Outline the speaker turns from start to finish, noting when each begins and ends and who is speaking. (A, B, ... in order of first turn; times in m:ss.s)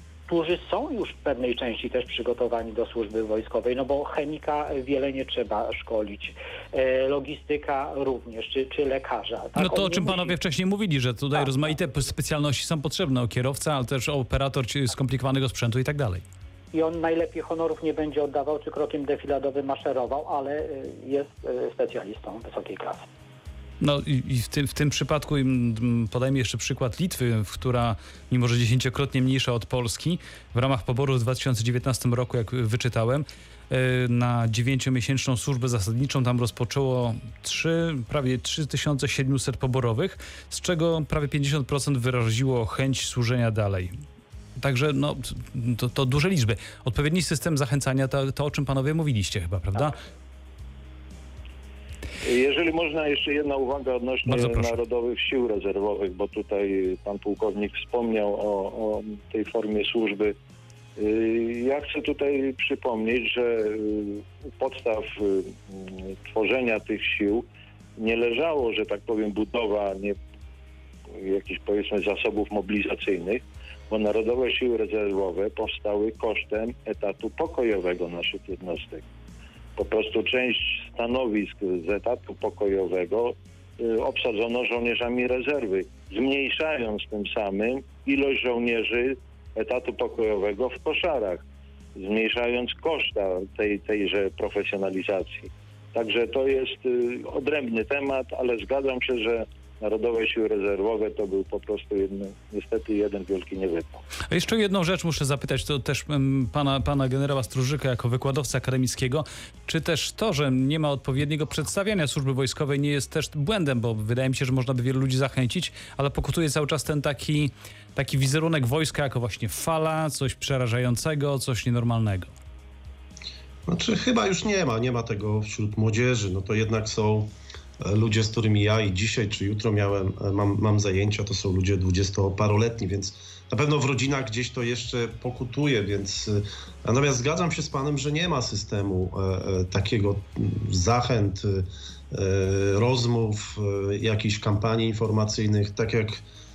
0:00.3-0:10.3 A
0:09.6-0:16.2 B
0:16.7-0:23.0 A
0:23.8-0:44.0 B
0:44.6-0:50.0 B
0:52.2-1:00.3 C
0:54.3-0:54.7 B
1:01.0-1:07.4 C
1:08.0-1:10.2 C
1:11.2-1:19.0 C
1:19.8-1:44.0 C
1:44.3-2:02.3 B
2:03.6-2:26.2 D